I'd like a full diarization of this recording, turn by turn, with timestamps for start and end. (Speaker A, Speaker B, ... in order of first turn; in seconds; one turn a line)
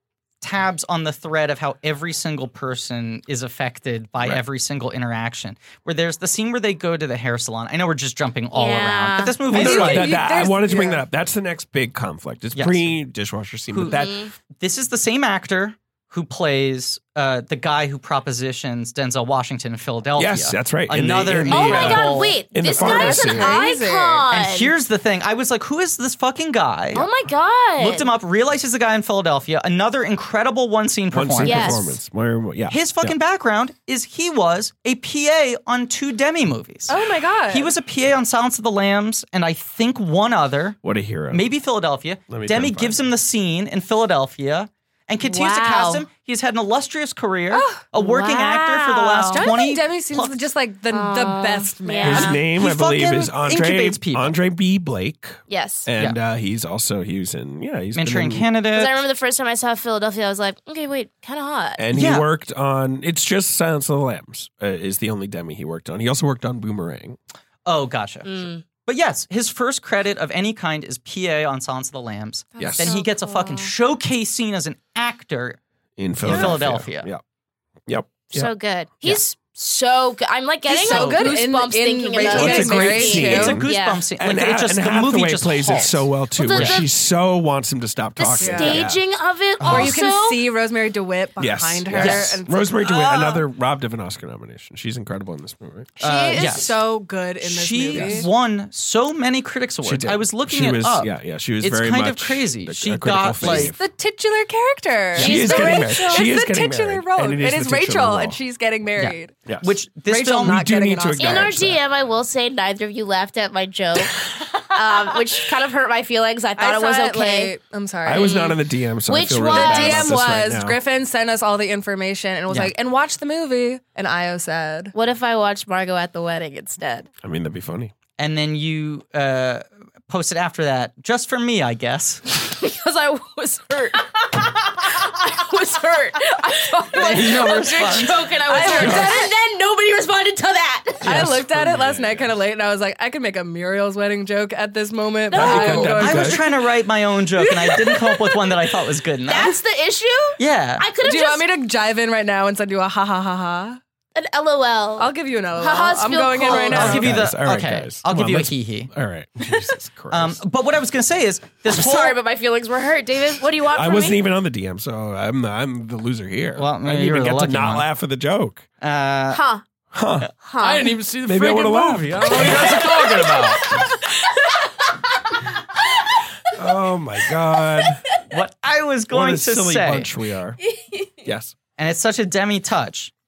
Speaker A: 0.4-10.1
Speaker B: 8.5-9.4
Speaker C: 9.5-11.0
Speaker D: 9.5-14.3
Speaker A: 12.5-12.9
Speaker A: 13.7-14.0
Speaker B: 13.9-14.3
Speaker A: 14.6-22.4
Speaker D: 20.2-23.6
Speaker B: 21.5-24.7
Speaker C: 22.7-24.2
Speaker A: 24.3-27.1
Speaker B: 26.9-28.1
Speaker A: 27.8-31.8
Speaker D: 31.1-33.1
Speaker B: 31.4-31.9
Speaker A: 32.7-37.0
Speaker C: 36.9-37.7
Speaker A: 37.5-40.8
Speaker D: 40.8-41.5
Speaker A: 41.3-50.4
Speaker D: 42.3-43.1
Speaker B: 45.2-46.0
Speaker C: 47.5-47.9
Speaker B: 48.0-49.5
Speaker C: 49.3-52.4
Speaker B: 50.9-52.4
Speaker D: 52.0-58.5
Speaker A: 52.0-54.3
Speaker B: 55.5-55.9
Speaker A: 57.9-59.0
Speaker B: 58.7-61.8
Speaker D: 61.8-67.2
Speaker A: 61.9-62.3
Speaker A: 67.6-75.6
Speaker B: 68.2-68.6
Speaker C: 72.6-73.0
Speaker B: 72.6-73.7
Speaker D: 72.6-73.0
Speaker D: 76.0-77.2
Speaker A: 76.2-77.1
Speaker D: 77.8-78.5
Speaker B: 78.3-84.0
Speaker C: 80.7-83.6
Speaker A: 80.9-81.2
Speaker D: 82.2-89.0
Speaker A: 82.4-86.8
Speaker B: 86.3-86.9
Speaker B: 88.2-90.5
Speaker C: 88.4-88.8
Speaker D: 89.6-89.9
Speaker C: 89.7-93.4
Speaker D: 91.4-95.9
Speaker A: 91.9-93.3
Speaker C: 96.0-98.3
Speaker A: 96.0-96.8
Speaker A: 97.4-103.7
Speaker D: 97.9-98.3
Speaker D: 99.8-103.8
Speaker C: 103.4-109.4
Speaker B: 105.2-106.3
Speaker D: 105.2-108.4
Speaker A: 109.0-110.7
Speaker D: 109.5-109.7
Speaker C: 110.0-111.6
Speaker D: 110.4-111.8
Speaker B: 111.2-117.5
Speaker C: 116.6-118.4
Speaker D: 118.0-120.8
Speaker B: 118.1-120.2
Speaker C: 119.5-124.9
Speaker B: 124.9-127.1
Speaker D: 127.2-127.9
Speaker A: 128.2-132.3
Speaker B: 132.3-141.3
Speaker C: 136.9-137.9
Speaker A: 137.1-138.2
Speaker C: 138.4-139.3
Speaker D: 138.7-139.2
Speaker D: 141.0-142.3
Speaker C: 141.0-146.7
Speaker A: 141.0-141.4
Speaker B: 145.3-146.2
Speaker D: 145.3-146.4
Speaker A: 145.9-149.5
Speaker C: 147.4-148.6
Speaker B: 149.3-151.5
Speaker A: 150.4-150.8
Speaker C: 151.0-153.8
Speaker B: 154.1-157.1
Speaker C: 155.0-157.2
Speaker D: 156.7-160.4
Speaker A: 156.7-158.9
Speaker A: 160.1-162.2
Speaker B: 161.7-164.2
Speaker D: 163.7-168.7
Speaker A: 166.6-167.9
Speaker A: 168.8-169.4
Speaker B: 169.3-169.6
Speaker D: 169.9-170.3
Speaker B: 170.4-171.0
Speaker E: 170.6-173.9
Speaker D: 171.2-172.8
Speaker B: 172.4-172.7
Speaker B: 173.8-174.5
Speaker D: 176.5-178.1
Speaker A: 178.3-180.1
Speaker D: 179.1-180.6
Speaker B: 180.6-181.1
Speaker D: 181.2-181.5
Speaker A: 181.8-183.1